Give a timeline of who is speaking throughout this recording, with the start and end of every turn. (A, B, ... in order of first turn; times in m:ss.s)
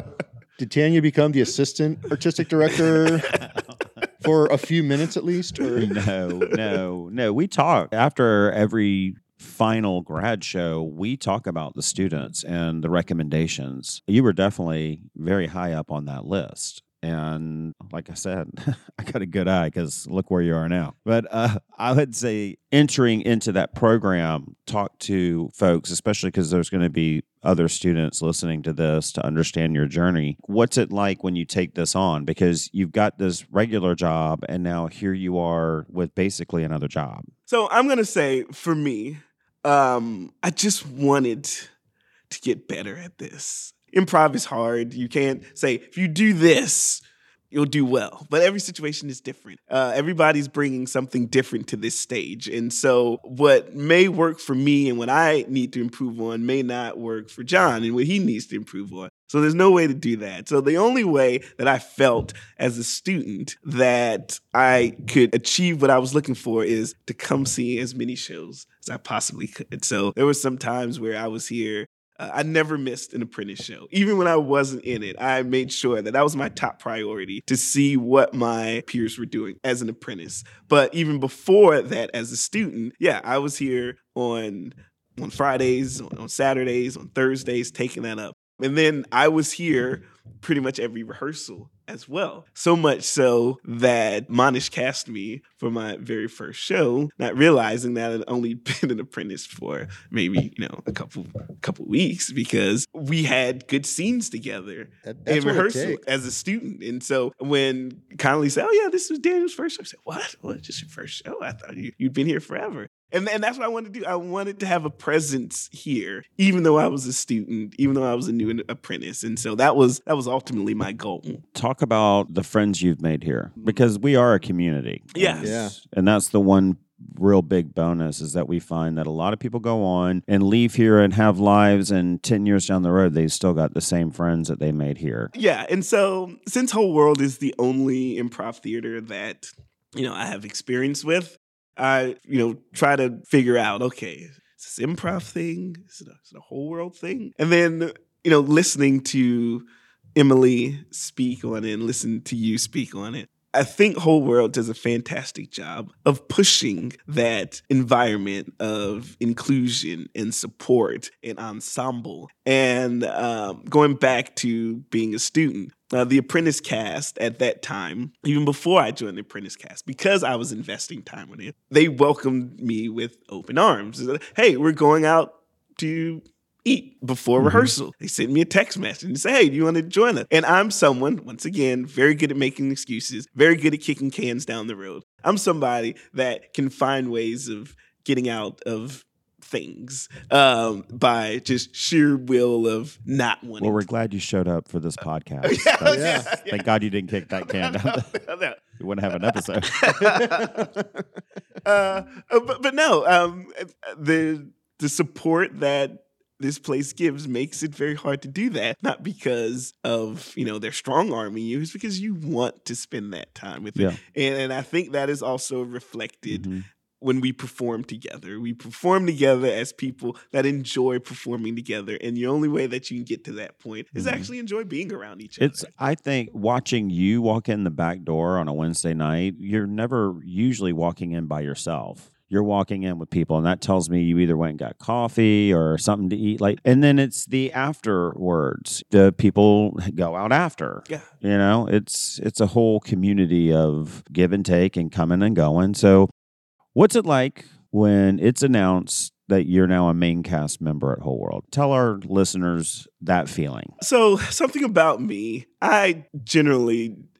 0:00.6-0:03.3 A
0:03.2-0:04.0 B
0:04.2-0:05.9 A
0:05.6-0:06.6 C
0:05.8-0:37.3 B
0:37.5-0:41.7 C
0:42.3-2:01.4 C
1:45.0-1:46.0 A
2:01.5-2:15.3 B
2:03.6-2:03.8 C
2:05.1-2:05.5 C
2:05.4-2:05.8 A
2:15.3-2:29.6 C
2:30.2-3:13.8 C
2:57.4-2:57.7 B
3:13.6-3:18.1 B
3:15.4-3:16.7 C
3:15.8-3:16.3 A
3:17.3-3:18.6 C
3:18.8-3:20.4 B
3:19.2-3:20.7 C
3:20.2-3:20.6 A
3:21.6-3:36.5 C
3:36.3-3:36.6 B
3:37.0-3:45.7 C
3:43.9-3:44.3 B
3:45.4-4:06.1 B
4:06.7-4:13.7 B
4:13.8-4:17.0 C